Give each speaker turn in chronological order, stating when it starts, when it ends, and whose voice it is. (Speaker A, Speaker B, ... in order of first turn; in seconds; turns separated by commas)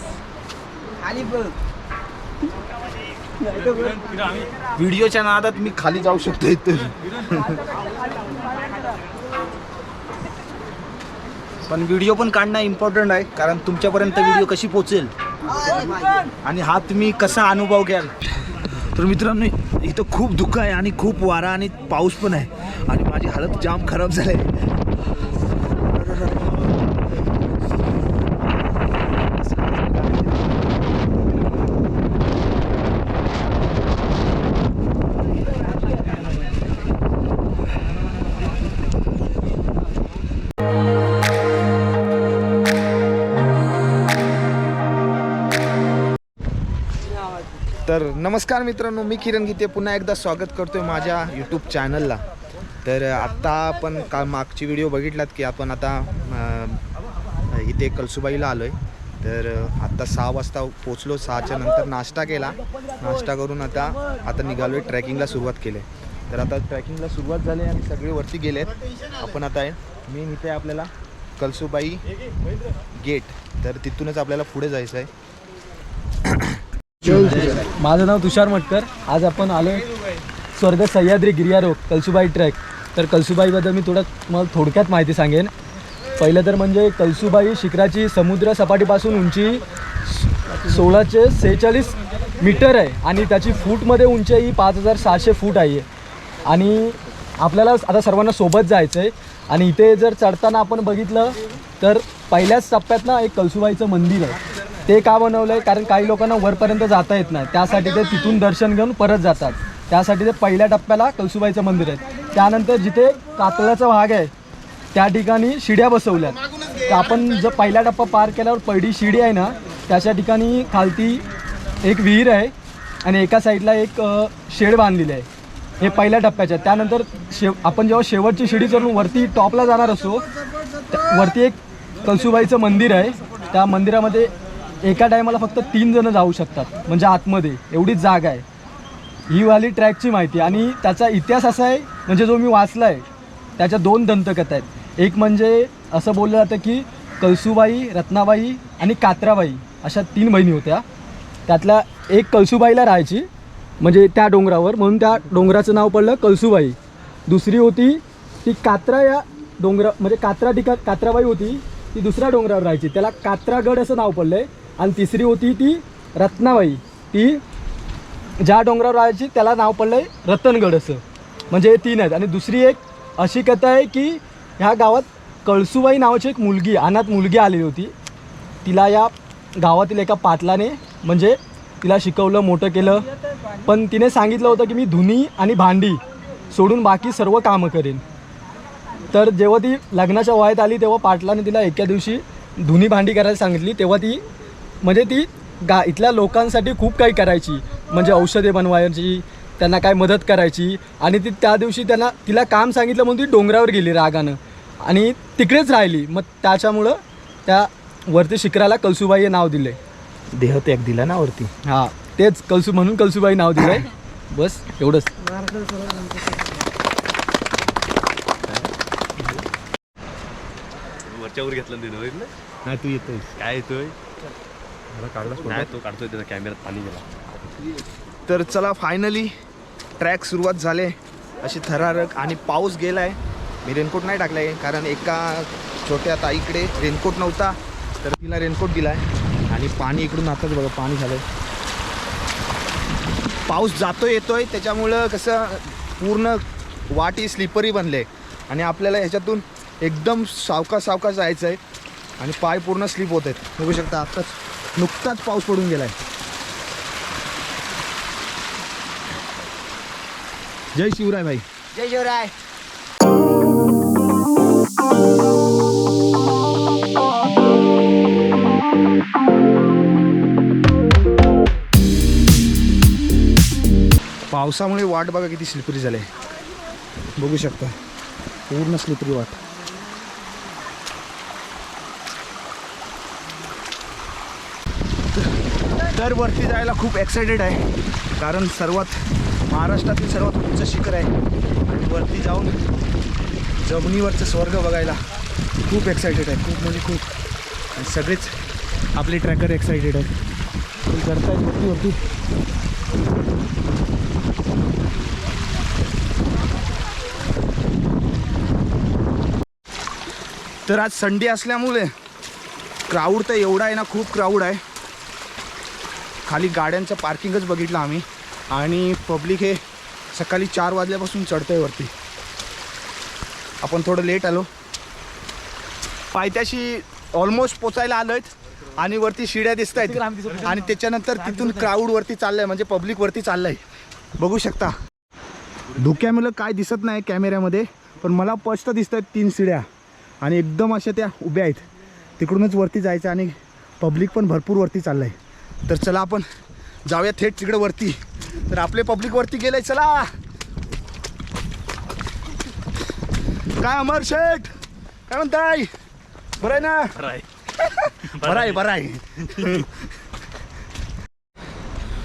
Speaker A: 1.0-1.5, Speaker A: 3.4-4.4, Speaker B: 4.7-7.6, Speaker A: 8.0-8.7, Speaker B: 11.7-15.1, Speaker A: 15.5-16.3, Speaker B: 16.4-18.1, Speaker B: 18.7-24.5, Speaker B: 47.9-52.2, Speaker B: 52.8-56.8, Speaker B: 57.5-72.0, Speaker B: 73.0-75.1, Speaker B: 76.3-77.7, Speaker C: 77.4-79.8, Speaker C: 80.5-85.5, Speaker C: 86.2-89.6, Speaker C: 90.4-95.9, Speaker C: 96.5-114.3, Speaker C: 114.9-121.2, Speaker C: 121.8-122.5, Speaker C: 123.0-125.3, Speaker C: 125.8-130.2, Speaker C: 130.9-134.3, Speaker C: 134.8-138.4, Speaker C: 139.3-143.1, Speaker C: 143.6-150.8, Speaker C: 151.5-153.3, Speaker C: 153.8-167.4, Speaker C: 168.4-177.9, Speaker C: 178.6-183.1, Speaker C: 183.7-188.0, Speaker C: 189.1-194.2, Speaker C: 194.8-209.8, Speaker B: 210.3-211.5, Speaker C: 211.7-215.1, Speaker A: 215.6-216.2, Speaker D: 221.1-222.3, Speaker B: 222.7-223.2, Speaker D: 223.2-224.0, Speaker D: 224.9-227.1, Speaker B: 228.3-229.3, Speaker B: 230.0-241.2, Speaker B: 243.5-251.6, Speaker B: 252.2-255.9, Speaker B: 260.7-261.4, Speaker A: 261.8-262.3, Speaker B: 274.3-276.1, Speaker B: 277.1-277.7, Speaker B: 278.5-279.4, Speaker B: 285.1-287.6, Speaker B: 288.2-291.1, Speaker B: 291.7-292.5, Speaker B: 293.6-295.0, Speaker B: 295.7-297.1, Speaker B: 297.7-298.3, Speaker B: 298.9-300.1, Speaker B: 300.9-302.0, Speaker B: 310.6-311.9, Speaker B: 312.9-314.6, Speaker B: 316.2-319.6, Speaker B: 320.1-321.9, Speaker B: 323.6-324.5, Speaker B: 326.1-333.6, Speaker B: 334.2-334.7, Speaker B: 335.7-339.6, Speaker B: 340.2-341.7, Speaker B: 342.2-345.1, Speaker B: 345.7-346.2, Speaker B: 346.9-350.1, Speaker B: 353.6-354.5, Speaker B: 355.1-355.7, Speaker B: 356.4-359.9